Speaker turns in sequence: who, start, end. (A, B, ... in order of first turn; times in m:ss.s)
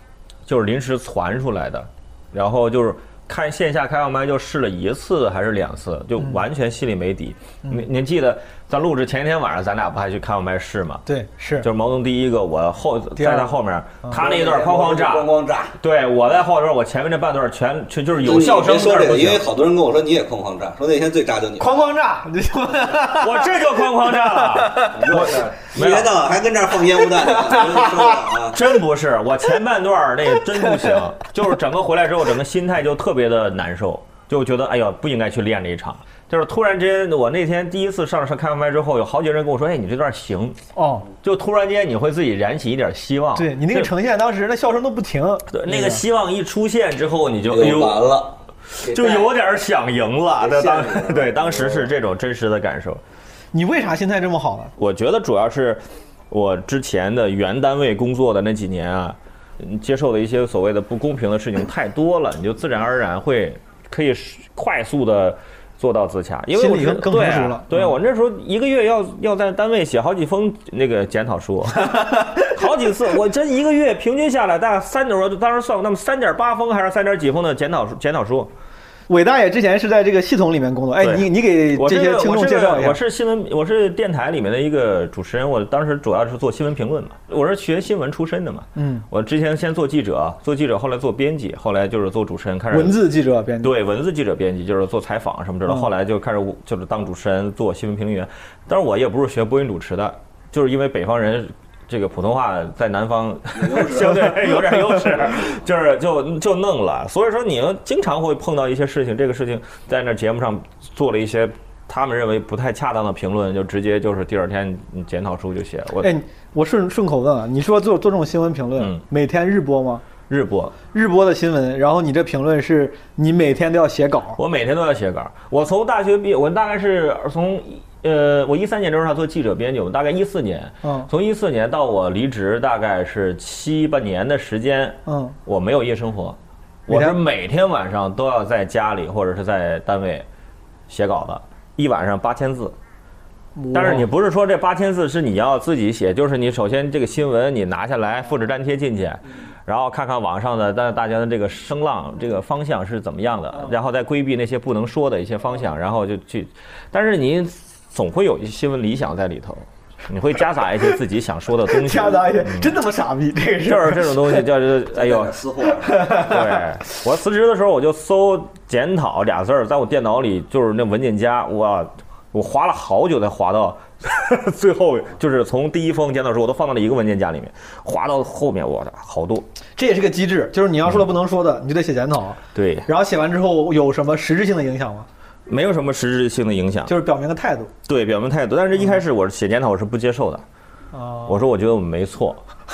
0:00.4-0:11.0 A
0:11.0-0:11.7 B
0:11.6-0:19.4 A
0:13.2-0:14.2 B
0:14.1-0:15.8 C
0:18.2-0:21.9 C
0:21.6-0:25.0 B
0:22.9-0:26.1 A
0:24.9-0:28.6 C
0:27.3-0:28.2 B
0:28.5-0:40.6 A
0:30.6-0:30.9 B
0:40.7-0:41.1 B
0:41.2-0:43.9 A
0:43.4-0:46.0 B
0:45.5-0:48.0 A
0:47.5-0:49.3 C
0:48.7-0:53.0 A
0:50.4-0:51.9 C
0:53.5-0:54.7 B
0:54.8-1:18.5 A
1:06.5-1:07.9 B
1:11.8-1:12.5 B
1:19.1-1:23.0 B
1:21.0-1:33.0 A
1:28.8-1:29.0 B
1:32.7-1:33.7 B
1:33.6-1:56.1 A
1:43.5-1:44.4 C
1:45.2-1:45.5 C
1:56.0-2:00.0 B
2:00.3-2:00.7 A
2:00.9-2:04.4 B
2:04.4-2:20.2 A
2:10.8-2:11.1 B
2:15.0-2:15.4 B
2:16.9-2:17.2 B
2:20.9-2:22.8 A
2:23.6-2:24.1 B
2:23.7-2:42.7 A
2:41.7-2:44.4 B
2:43.6-2:45.4 A
2:44.9-2:46.3 C
2:45.8-2:46.6 B
2:46.1-2:59.4 A
2:59.8-3:05.1 B
3:02.5-3:02.9 A
3:05.5-3:06.9 A
3:06.9-3:07.7 B
3:07.8-3:10.4 A
3:10.9-3:11.4 B
3:11.3-3:12.4 A